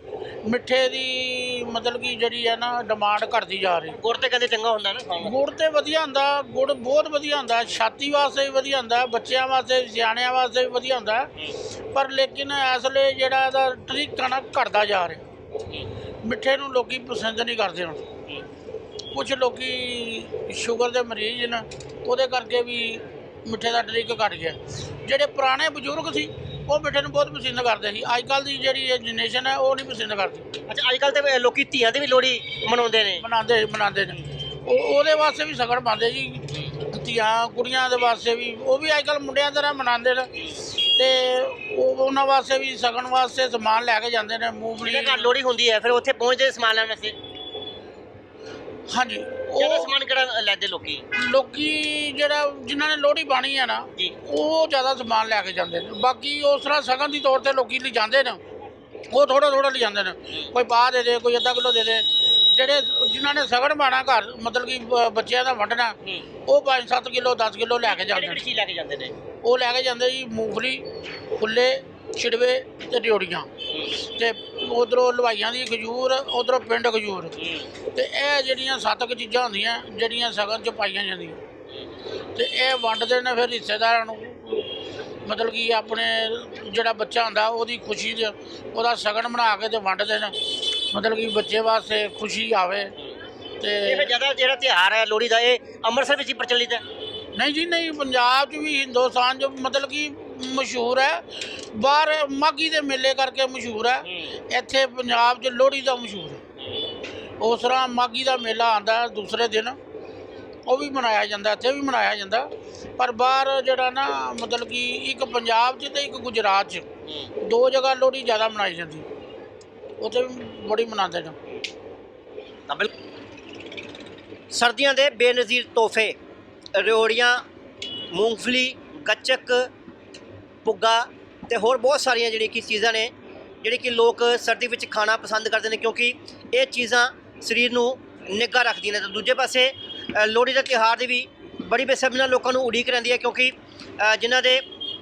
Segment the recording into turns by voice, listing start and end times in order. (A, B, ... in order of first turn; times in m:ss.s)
0:00.4-0:04.0 A
0:03.9-0:05.3 B
0:05.2-0:11.3 A
0:11.9-0:15.2 A
0:16.2-0:18.0 A
0:19.1-0:30.4 A
0:30.7-0:33.2 B
0:33.2-0:45.3 A
0:44.8-0:47.2 B
0:48.9-0:49.9 A
0:49.6-0:51.0 B
0:51.1-0:58.4 A
0:59.1-1:08.4 A
1:07.8-1:09.1 B
1:09.4-1:13.5 A
1:14.0-1:17.3 A
1:17.4-1:17.6 B
1:17.9-1:21.4 A
1:22.3-1:24.7 A
1:25.2-1:30.4 A
1:30.9-1:32.9 A
1:33.6-1:34.1 A
1:33.8-1:36.8 B
1:37.3-1:46.4 A
1:47.4-1:49.8 A
1:50.6-1:56.8 A
1:57.4-1:59.0 A
2:00.0-2:01.4 A
2:04.5-2:06.2 B
2:06.7-2:07.4 B
2:08.1-2:09.7 B
2:10.6-2:13.1 B
2:13.6-2:24.6 B